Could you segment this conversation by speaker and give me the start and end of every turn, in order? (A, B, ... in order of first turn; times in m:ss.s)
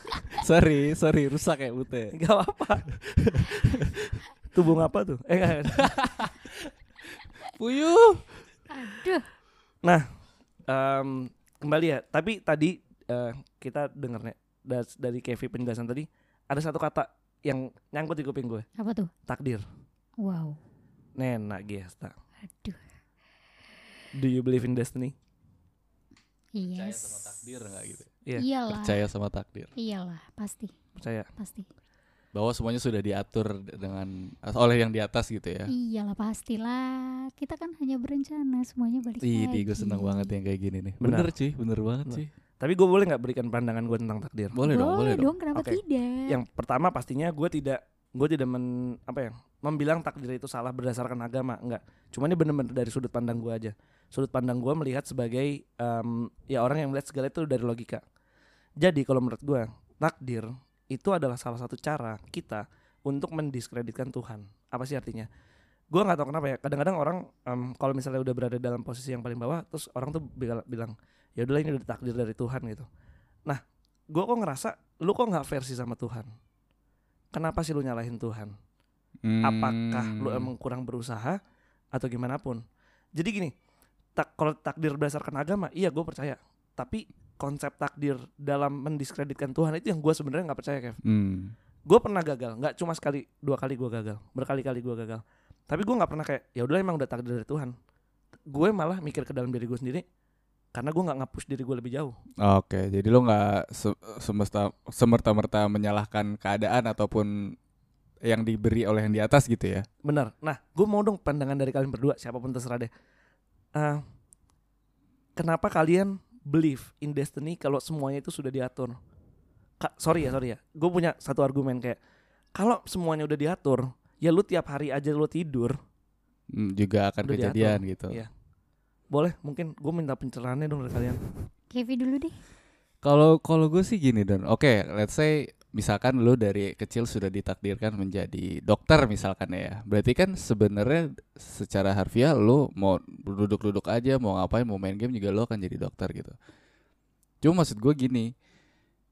0:00.3-0:02.1 A
0:02.1-0:02.8 B
0:03.1-0:03.9 A
0:04.5-0:05.9 B
0:05.8-0:06.7 A
0:07.4-0:08.3 A
0:08.7-0:09.3 C
0:10.7-0:18.7 B
0:18.8-0:19.1 C
0:19.3-0:19.6 B
0:20.2-0:20.6 C
0:21.2-0:22.1 B
0:22.5-0:22.8 C
0:24.2-0:25.1 B
0:26.6-0:27.3 C
0:26.8-0:28.1 A
0:28.4-0:29.0 C
0:28.7-0:29.7 A
0:29.8-0:30.7 C
0:31.0-0:31.2 B
0:31.4-0:31.7 C
0:32.4-0:35.7 A
0:35.7-0:40.3 C
0:39.2-0:42.3 A
0:41.0-0:41.3 B
0:42.1-0:44.6 B
0:44.5-0:45.3 A
0:44.7-0:46.4 C
0:45.6-0:58.0 B
0:58.8-1:05.3 B
1:05.9-1:12.9 B
1:13.5-1:16.3 B
1:17.3-1:18.5 B
1:19.2-1:20.5 A
1:19.4-1:21.4 B
1:22.0-1:22.6 B
1:23.2-1:23.5 B
1:24.2-1:31.0 B
1:31.0-1:31.5 A
1:31.9-1:37.7 B
1:38.5-1:40.0 B
1:40.8-1:42.2 B
1:42.4-1:47.3 A
1:48.3-1:49.8 A
1:50.0-1:52.9 B
1:55.4-1:59.0 B
1:59.8-2:02.0 B
2:02.6-2:05.8 B
2:06.5-2:08.2 A
2:07.2-2:08.3 B
2:09.1-2:11.2 B
2:11.7-2:12.4 C
2:13.0-2:26.4 A
2:27.4-2:28.3 A